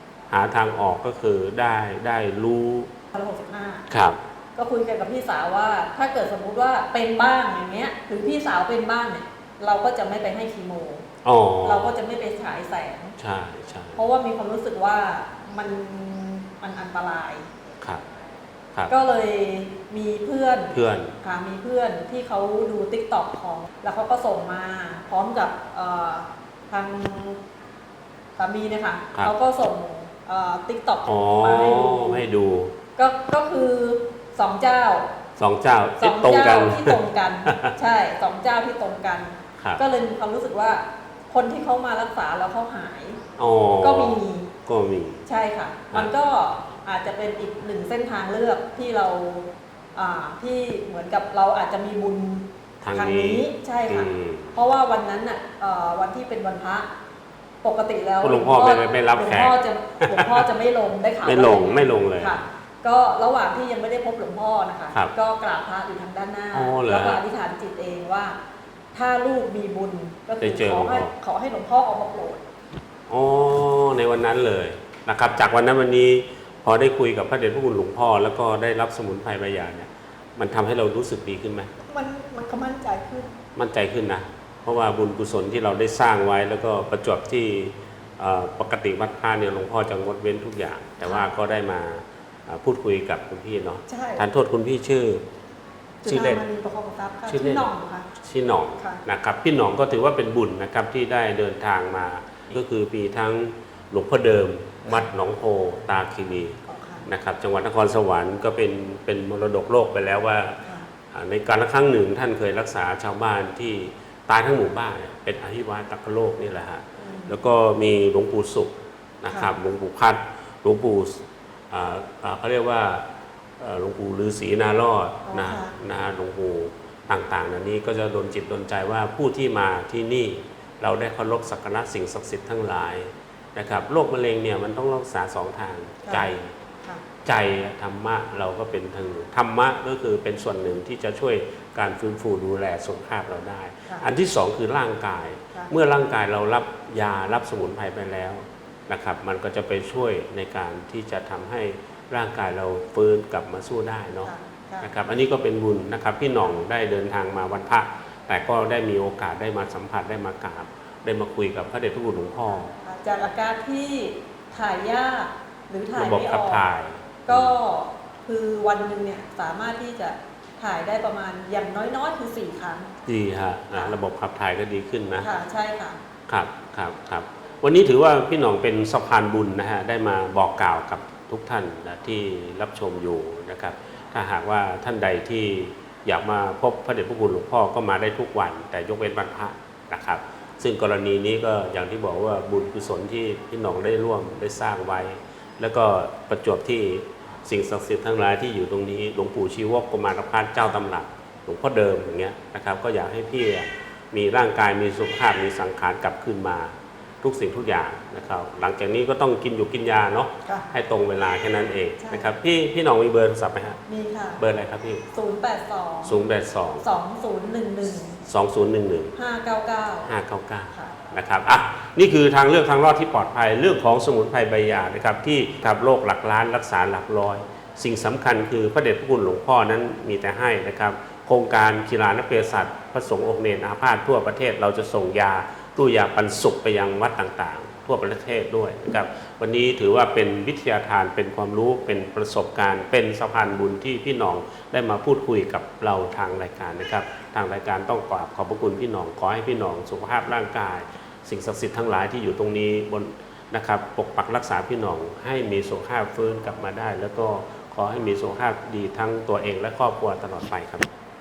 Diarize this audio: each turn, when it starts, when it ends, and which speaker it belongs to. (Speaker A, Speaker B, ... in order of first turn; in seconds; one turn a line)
Speaker A: 0.3-2.9
Speaker B: 3.1-3.9
Speaker A: 3.9-4.2
Speaker B: 4.6-11.1
Speaker A: 11.2-11.9
Speaker B: 11.6-13.2
Speaker A: 13.2-14.0
Speaker B: 13.9-17.5
Speaker B: 18.9-27.4
Speaker A: 20.7-21.1
Speaker B: 28.4-32.3
Speaker A: 31.1-32.7
Speaker B: 33.0-35.1
Speaker A: 35.4-37.8
Speaker B: 36.0-43.2
Speaker A: 43.4-45.3
Speaker B: 43.8-44.5
Speaker B: 45.3-56.9
Speaker A: 52.8-54.6
Speaker B: 57.6-68.4
Speaker A: 58.2-60.5
Speaker A: 61.2-62.4
Speaker A: 66.5-67.2
Speaker B: 68.9-72.4
Speaker A: 70.4-71.1
Speaker A: 73.1-81.7
Speaker B: 81.8-83.3
Speaker A: 83.6-95.2
Speaker B: 91.0-91.3
Speaker B: 93.9-94.2
Speaker B: 96.0-98.1
Speaker A: 96.0-96.4
Speaker A: 97.3-110.6
Speaker B: 106.7-107.1
Speaker B: 110.6-110.9
Speaker A: 111.1-123.1
Speaker B: 117.0-117.4
Speaker B: 119.3-119.5
Speaker A: 123.6-136.5
Speaker B: 125.3-125.8
Speaker B: 136.0-136.3
Speaker A: 137.2-162.7
Speaker B: 154.2-154.9
Speaker B: 162.5-166.6
Speaker A: 166.0-167.6
Speaker B: 167.3-172.9
Speaker A: 173.1-175.3
Speaker B: 175.2-176.0
Speaker A: 176.3-213.8
Speaker B: 210.4-210.7
Speaker B: 212.0-212.3
Speaker B: 213.9-214.4
Speaker A: 214.4-215.0
Speaker B: 215.1-216.3
Speaker A: 216.0-216.9
Speaker B: 216.8-218.2
Speaker A: 218.3-219.2
Speaker B: 219.2-220.1
Speaker A: 220.1-260.9